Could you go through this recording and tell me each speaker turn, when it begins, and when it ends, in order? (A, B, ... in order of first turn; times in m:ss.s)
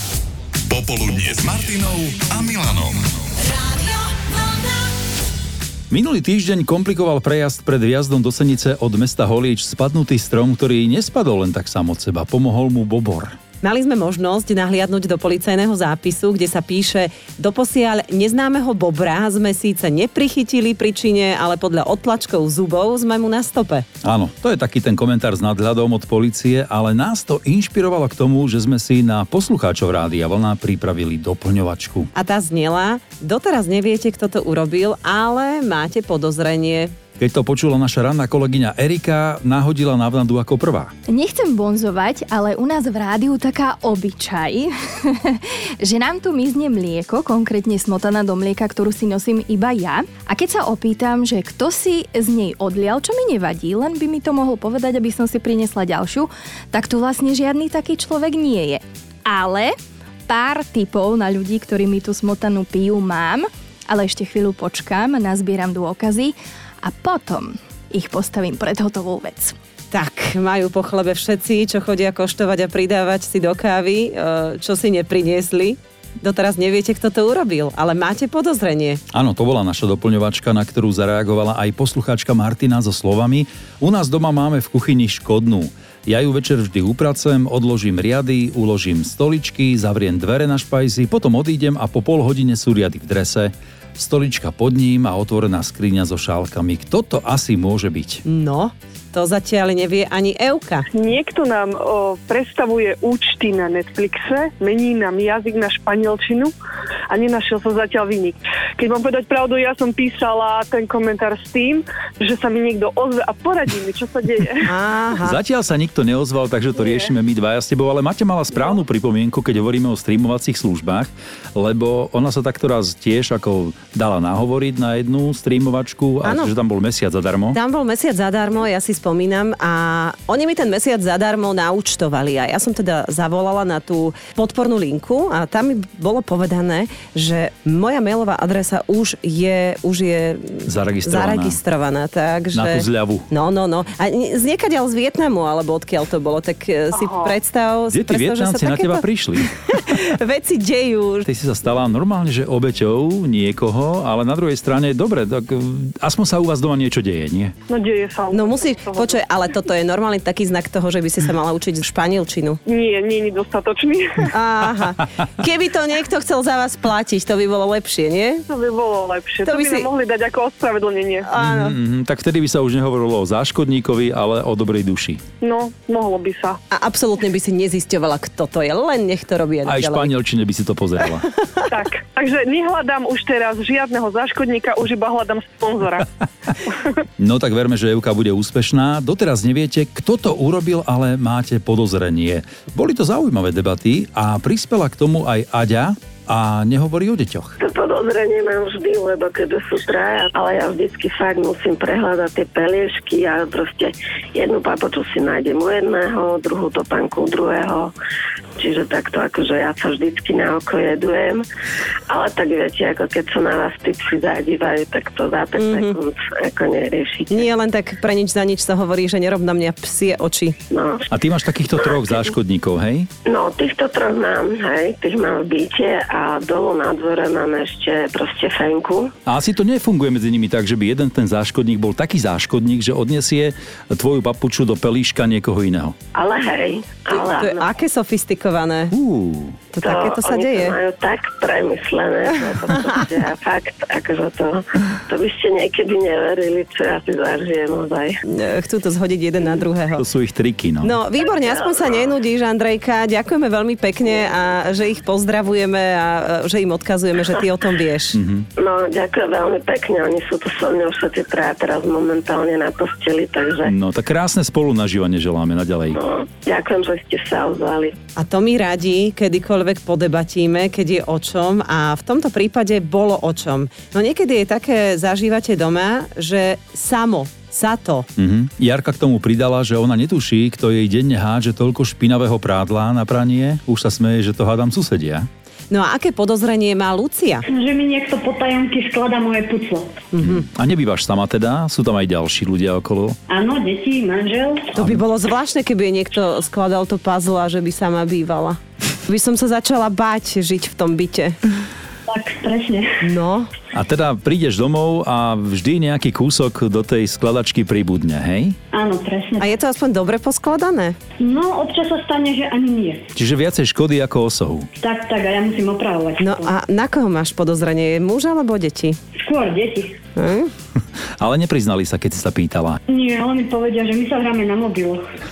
0:00.7-0:03.1 A
0:05.9-0:13.4 B
0:13.6-0:23.9 C
0:24.0-0:32.1 B
0:32.2-0:36.9 C
0:37.2-0:40.9 B
0:41.1-0:59.7 D
1:00.3-1:09.5 D
1:09.9-1:19.0 C
1:19.1-1:38.2 B
1:38.3-1:40.9 C
1:40.9-1:46.5 E
1:47.1-1:54.7 E
1:54.7-1:55.4 C
1:55.2-2:07.6 B
2:06.2-2:06.5 C
2:07.5-2:31.2 C
2:20.7-2:21.6 B
2:22.5-2:23.3 B
2:27.9-2:30.0 B
2:31.2-2:37.5 B
2:37.7-2:39.2 E
2:38.3-2:42.6 C
2:42.7-2:44.3 E
2:44.3-2:48.4 C
2:48.5-2:51.3 E
2:49.4-2:49.9 C
2:51.3-2:51.8 C
2:51.4-2:55.2 B
2:55.4-2:56.6 E
2:56.7-3:00.1 C
2:59.6-3:01.3 B
3:01.7-3:06.1 E
3:07.2-3:17.6 B
3:17.6-3:27.9 F
3:28.6-3:31.4 F
3:32.1-3:37.5 F
3:35.6-3:36.0 C
3:37.3-3:40.6 C
3:40.7-3:41.0 F
3:41.1-3:43.1 B
3:43.3-3:49.1 F
3:49.2-3:55.9 B
3:56.2-3:57.7 F
3:57.1-3:58.9 C
3:58.9-3:59.6 B
3:59.7-4:00.8 C
3:59.8-4:08.2 F
4:08.3-4:10.0 C
4:10.0-4:11.0 B
4:10.8-4:18.2 C
4:11.3-4:12.1 F
4:18.1-4:18.5 B
4:18.6-4:23.7 F
4:23.6-4:26.0 B
4:25.9-4:28.0 F
4:28.2-4:38.1 C
4:38.2-4:45.3 B
4:45.7-4:47.4 C
4:47.5-4:50.1 G
4:50.1-4:50.4 C
4:50.2-4:53.2 B
4:53.3-4:54.8 G
4:54.7-5:01.4 C
5:02.1-5:03.0 G
5:03.0-5:03.5 C
5:03.7-5:08.6 B
5:08.7-5:09.6 G
5:09.4-5:11.0 C
5:11.2-5:13.0 G
5:13.1-5:14.7 B
5:14.8-5:16.5 G
5:16.2-5:19.0 C
5:19.2-5:20.0 G
5:20.2-5:20.5 C
5:21.2-5:22.8 B
5:22.9-5:25.0 G